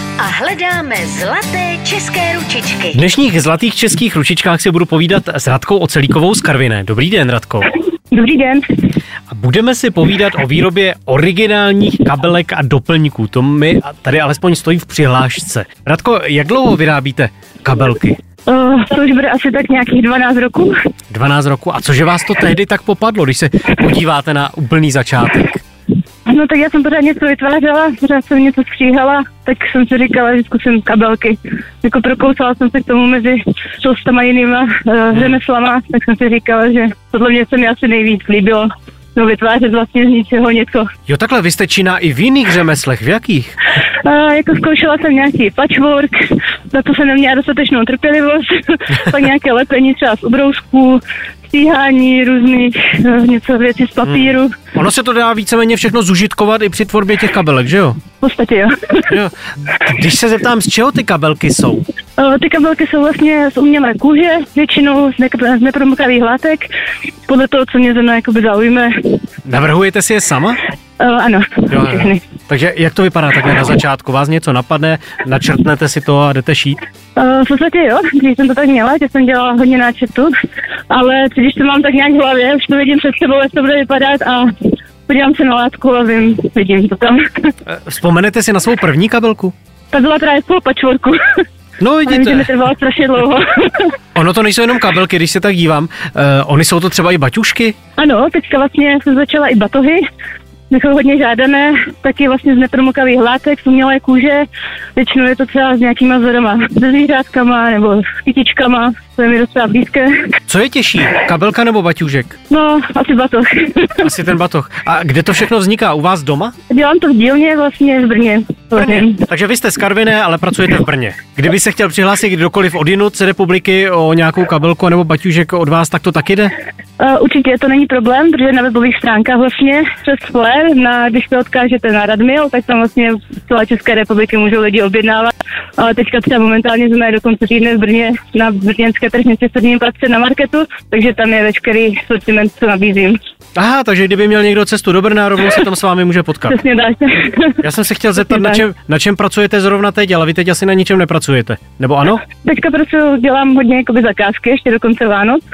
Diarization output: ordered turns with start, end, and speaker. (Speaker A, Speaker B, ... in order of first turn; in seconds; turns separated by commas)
Speaker A: 0.2-3.0, Speaker B: 2.9-7.7, Speaker C: 8.1-8.7, Speaker B: 9.3-18.2, Speaker C: 18.5-20.7, Speaker B: 21.1-25.6, Speaker C: 26.2-40.9, Speaker B: 35.1-35.4, Speaker B: 41.1-43.5, Speaker C: 44.0-54.5, Speaker B: 54.0-58.0, Speaker C: 58.2-59.1, Speaker B: 59.1-61.8, Speaker C: 62.2-66.7, Speaker C: 67.3-69.0, Speaker B: 69.4-70.6, Speaker C: 71.0-72.2, Speaker B: 71.7-76.8, Speaker C: 77.2-80.3, Speaker C: 80.9-87.5, Speaker B: 87.7-89.5, Speaker C: 89.9-91.4, Speaker B: 91.8-92.5, Speaker C: 92.0-93.9, Speaker B: 94.1-97.7, Speaker C: 98.0-100.0, Speaker C: 100.7-110.1, Speaker B: 110.5-112.3, Speaker C: 112.5-114.1, Speaker B: 114.0-116.5, Speaker C: 116.7-119.2, Speaker B: 118.8-126.5, Speaker C: 127.0-143.2, Speaker B: 143.6-146.6, Speaker C: 146.5-147.6, Speaker B: 147.6-152.2, Speaker C: 148.2-148.6, Speaker C: 152.4-155.4